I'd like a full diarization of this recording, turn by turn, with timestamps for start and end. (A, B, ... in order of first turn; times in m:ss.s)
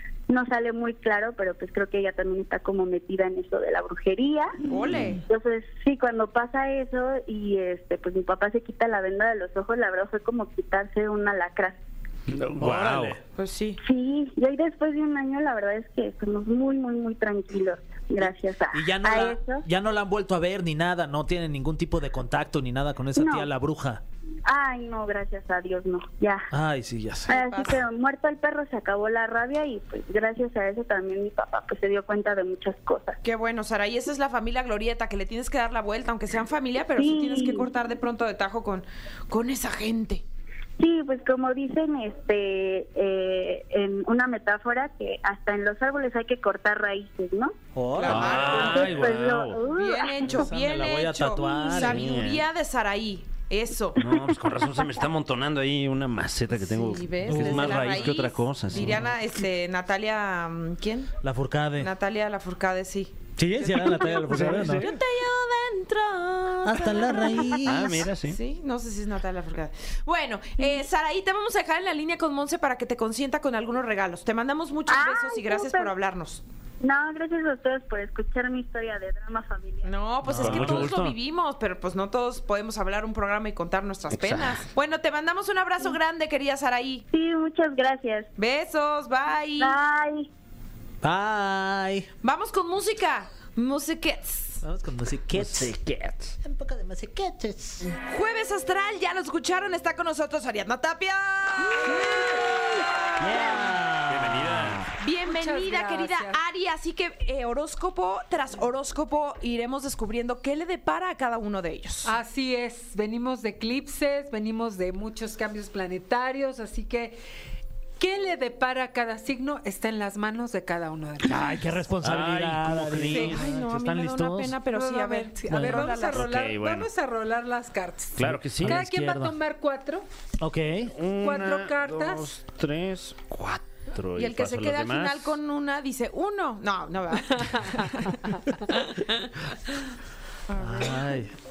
0:00.3-0:04.6 A
0:04.7-0:05.2 B
0:05.2-0:11.8 A
0:12.3-0:13.2 C
0:12.6-0:13.2 D
0:13.3-0:13.8 B
0:13.8-0:19.6 A
0:18.7-0:24.0 D
0:23.2-0:23.5 A
0:24.4-0:26.5 A
0:26.5-0:27.3 D
0:27.3-0:27.8 B
0:27.3-0:33.2 A
0:33.2-0:40.2 B
0:37.0-0:37.7 A
0:40.8-0:47.5 A
0:47.7-0:48.8 D
0:47.9-0:49.0 B
0:48.0-0:49.6 C
0:48.4-0:50.3 A
0:49.7-0:54.0 B
0:50.3-0:52.2 D
0:51.7-0:52.4 C
0:54.0-0:59.1 C
0:54.1-0:54.9 A
0:56.5-1:01.1 B
0:57.3-0:58.2 D
0:58.7-0:59.1 D
1:01.2-1:01.9 D
1:01.8-1:16.4 B
1:03.4-1:04.9 D
1:04.3-1:04.9 C
1:06.6-1:08.1 D
1:07.6-1:08.4 C
1:14.9-1:15.9 A
1:16.8-1:19.9 A
1:19.8-1:27.0 B
1:20.2-1:21.1 C
1:24.1-1:24.6 C
1:27.1-1:28.3 A
1:28.4-1:29.8 B
1:29.6-1:30.3 A
1:31.0-1:32.1 D
1:32.2-1:34.6 B
1:34.6-1:35.7 D
1:35.3-1:36.3 C
1:36.4-1:37.9 D
1:38.0-1:43.7 B
1:41.8-1:42.5 E
1:43.2-1:44.9 D
1:44.0-1:44.9 C
1:45.0-1:52.1 B
1:45.2-1:46.4 E
1:52.0-1:57.2 E
1:58.0-2:01.8 E
2:01.2-2:04.6 D
2:02.0-2:03.4 C
2:03.1-2:06.3 B
2:04.7-2:10.0 E
2:05.5-2:05.9 D
2:06.0-2:06.9 C
2:08.2-2:08.8 C
2:08.2-2:09.4 D
2:10.4-2:10.9 D
2:10.9-2:15.3 C
2:11.2-2:12.3 E
2:14.2-2:18.2 B
2:17.3-2:18.4 E
2:18.9-2:19.1 B
2:20.5-2:21.2 B
2:20.6-2:21.3 D